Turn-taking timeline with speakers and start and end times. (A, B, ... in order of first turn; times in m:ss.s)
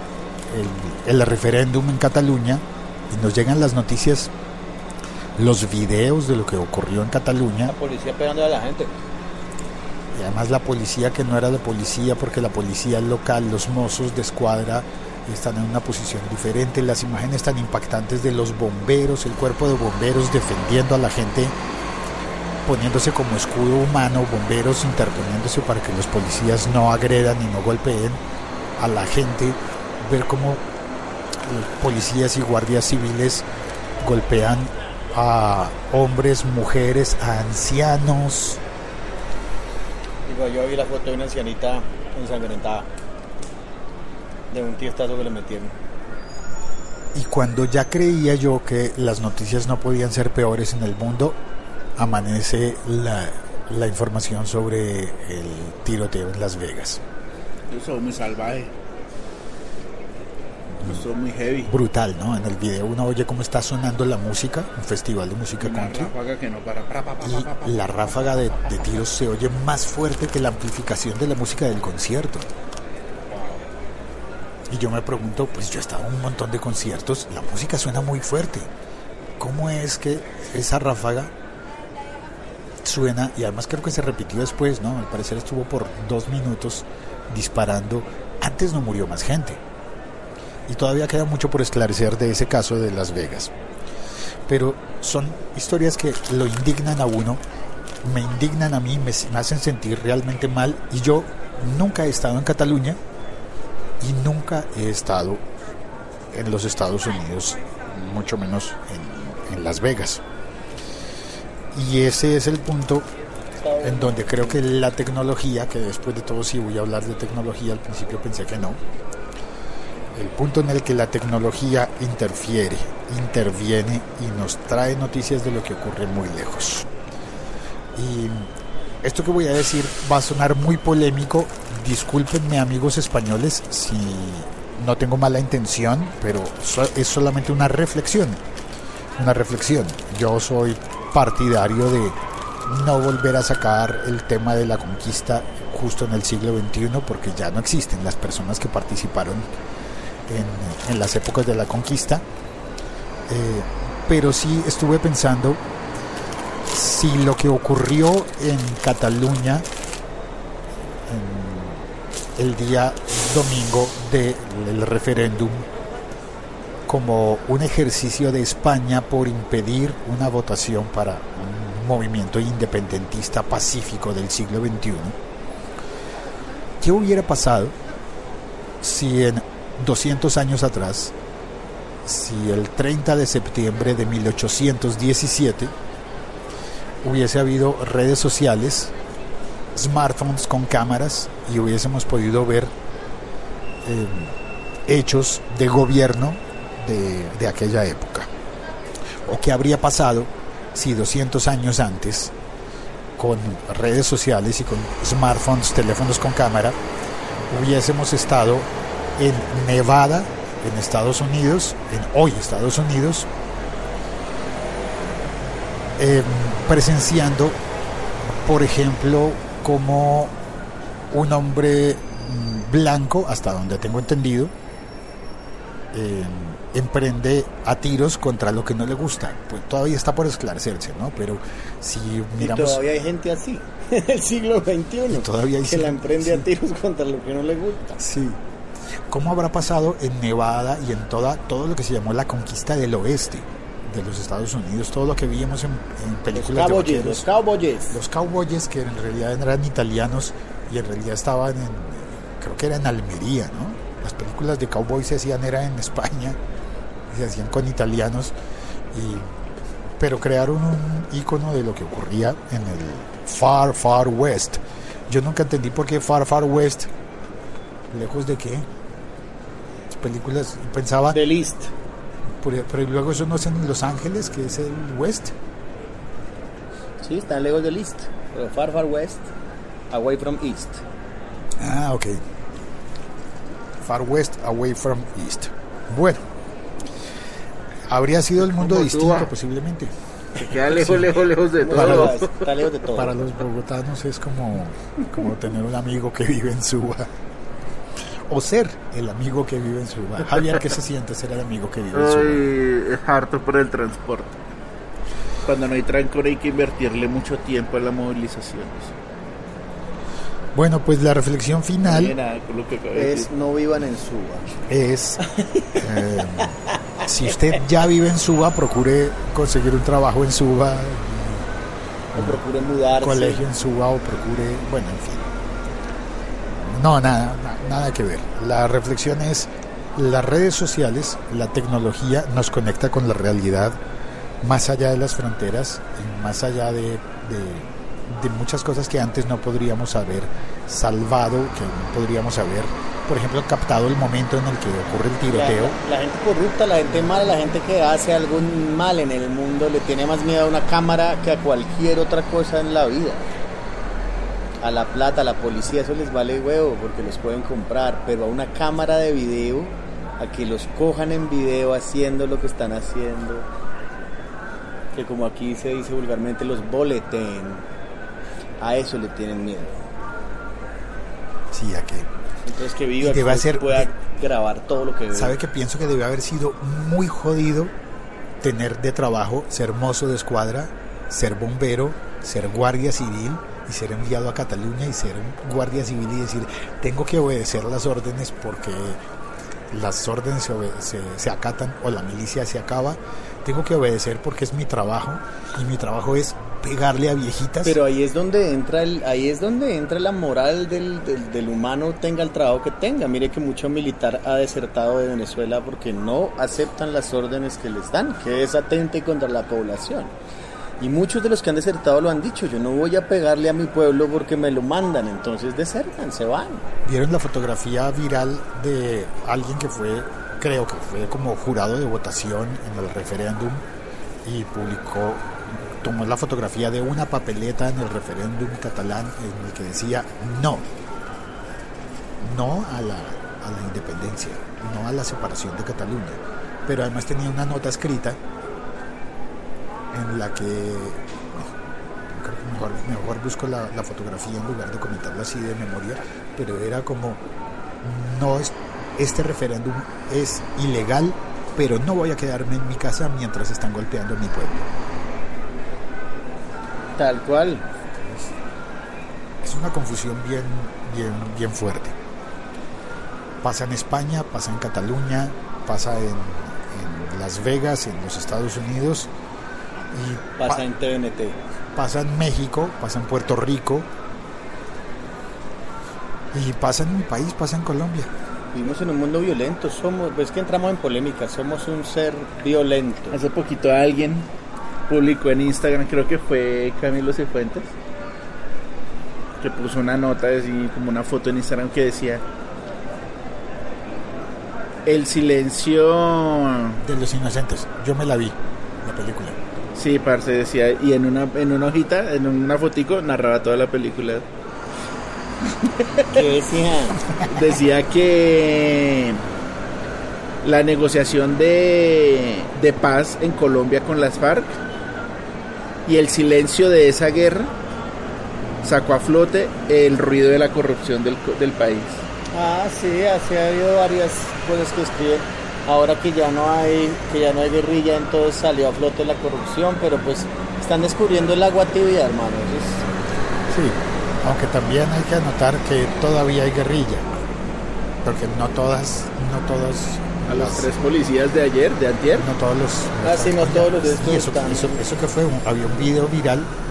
0:00.5-0:04.3 A
0:05.4-0:07.8 A
0:07.7-0:08.9 B
0:10.1-0:21.6 A
0:22.7-0:28.2 A
0:28.8-0:30.6 A
0:31.4-0:33.5 A
0:34.0-0:38.6 A
0:40.3-0:42.9 B
0:44.5-0:45.7 B
0:47.1-0:51.4 A
0:52.0-0:57.0 A
0:57.7-0:58.7 C
1:00.8-1:01.0 A
1:00.8-1:01.7 C
1:01.7-1:06.1 A
1:05.6-1:08.6 C
1:07.2-1:12.5 A
1:13.4-1:13.6 C
1:14.7-1:18.7 A
1:19.4-1:21.3 A
1:22.8-1:29.6 A
1:30.7-1:33.5 A
1:34.5-1:37.4 A
1:38.0-1:43.0 A
1:44.0-1:45.4 A
1:46.3-1:50.2 A
1:51.7-1:53.1 A
1:53.6-1:54.6 B
1:53.8-1:58.8 A
2:00.1-2:06.9 A
2:08.0-2:08.5 A
2:09.0-2:18.4 A
2:19.2-2:29.5 A
2:30.3-2:32.2 A
2:33.3-2:35.6 A
2:36.7-2:39.7 A
2:41.1-2:45.7 A
2:46.9-2:55.2 A
2:56.8-2:57.8 A
2:58.8-3:01.1 A
3:02.0-3:05.7 A
3:07.0-3:08.9 A
3:09.8-3:12.7 A
3:13.8-3:14.4 A
3:14.9-3:18.3 A
3:19.2-3:22.3 A
3:23.2-3:26.8 A
3:27.5-3:33.3 A
3:36.0-3:37.6 A
3:38.4-3:40.4 A
3:41.1-3:44.5 A
3:45.9-3:52.8 A
3:52.4-3:58.0 B
3:55.1-3:56.5 A
3:58.0-3:58.4 A
3:59.1-4:07.3 A
4:06.3-4:08.0 B
4:07.9-4:16.4 A
4:17.1-4:18.3 A
4:18.9-4:19.3 A
4:20.0-4:26.9 A
4:27.9-4:28.7 A
4:29.9-4:31.2 A
4:31.1-4:31.7 B
4:32.4-4:35.4 A
4:37.0-4:39.3 B
4:39.9-4:40.8 B
4:41.6-4:42.2 A
4:43.8-4:46.3 A
4:47.9-4:49.9 A
4:48.5-4:49.3 C
4:50.4-4:52.6 C
4:50.7-4:51.1 A
4:51.6-4:53.2 B
4:51.7-4:52.2 A
4:52.9-4:57.1 A
4:58.3-5:02.5 A
5:01.9-5:04.4 C
5:05.5-5:08.9 C
5:10.6-5:12.1 A
5:11.8-5:13.3 C
5:13.0-5:14.5 B
5:14.7-5:15.2 A
5:15.4-5:15.8 B
5:15.8-5:16.5 A
5:17.0-5:21.5 A
5:22.1-5:23.4 B
5:22.2-5:22.4 A
5:23.0-5:25.3 A
5:26.5-5:33.8 A
5:34.4-5:45.8 A
5:45.3-5:53.2 B
5:54.6-6:03.5 B
6:04.9-6:07.6 B
6:08.6-6:09.8 B
6:11.5-6:12.1 A
6:12.5-6:15.4 B
6:13.0-6:13.9 A
6:15.1-6:17.7 A
6:18.4-6:29.0 A
6:29.7-6:37.8 A
6:37.6-6:50.1 B
6:50.8-6:56.6 B
6:56.9-7:03.6 A
7:04.2-7:10.7 A
7:12.2-7:18.2 A
7:19.9-7:21.5 A
7:22.1-7:27.2 A
7:27.8-7:34.7 A
7:37.0-7:37.6 B
7:39.4-7:42.0 A
7:43.4-7:49.1 A
7:49.9-7:50.6 A
7:50.4-7:51.4 B
7:51.8-7:53.9 A
7:56.3-7:58.1 A
7:58.5-8:03.2 B
8:03.1-8:04.3 C
8:04.9-8:07.7 C
8:09.4-8:12.2 C
8:14.9-8:16.8 C
8:16.8-8:19.4 A
8:19.8-8:24.3 C
8:26.1-8:27.0 B
8:27.3-8:29.2 C
8:30.4-8:34.5 C
8:35.9-8:37.5 C
8:38.6-8:42.1 C
8:42.3-8:52.8 B
8:53.5-8:57.1 A
8:58.0-9:00.7 A
9:00.3-9:02.3 C
9:02.2-9:06.5 A
9:03.0-9:04.8 B